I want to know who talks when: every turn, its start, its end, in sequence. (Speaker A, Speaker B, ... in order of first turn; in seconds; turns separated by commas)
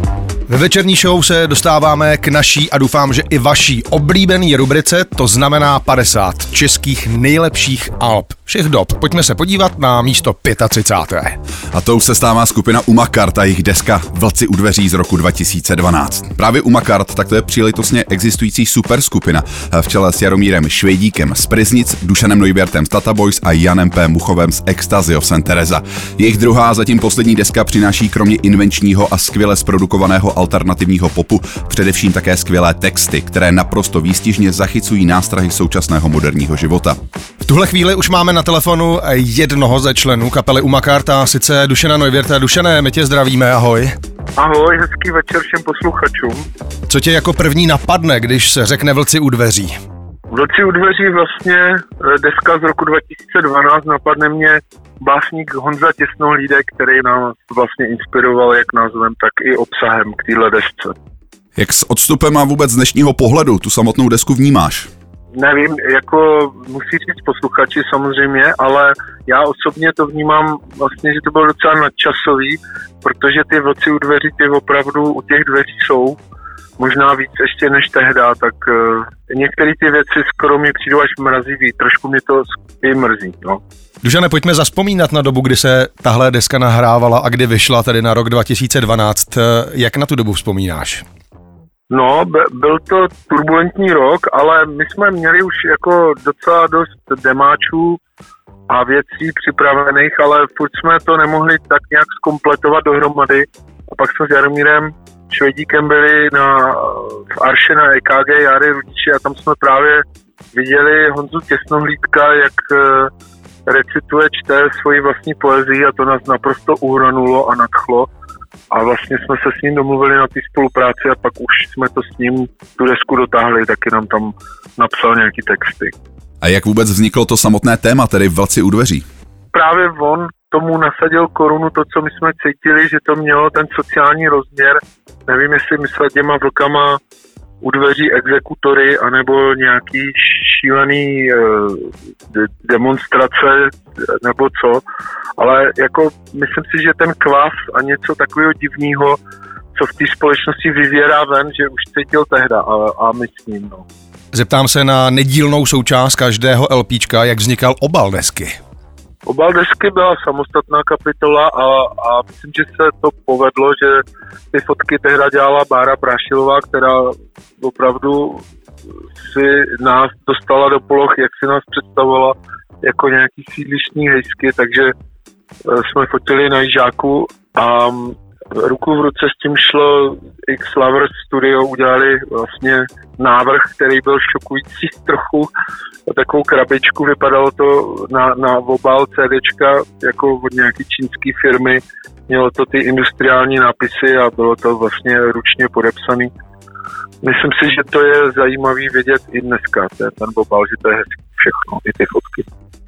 Speaker A: 0.5-11.4, Speaker B: 11.7-37.0, Speaker A: 37.4-43.9, Speaker C: 44.4-46.5, Speaker A: 46.9-49.8, Speaker C: 50.3-60.9, Speaker B: 61.6-64.9, Speaker C: 65.3-76.2, Speaker C: 76.8-83.6, Speaker A: 84.0-91.0, Speaker C: 91.9-98.0, Speaker C: 98.7-113.1, Speaker C: 113.7-118.1, Speaker C: 118.7-125.9, Speaker B: 126.4-129.1, Speaker C: 129.5-137.0, Speaker C: 137.6-144.8, Speaker C: 145.4-149.2, Speaker C: 149.7-153.8, Speaker A: 154.3-158.6, Speaker C: 159.2-168.4, Speaker C: 169.2-174.9, Speaker C: 175.7-185.5, Speaker C: 186.1-196.3, Speaker C: 197.2-202.4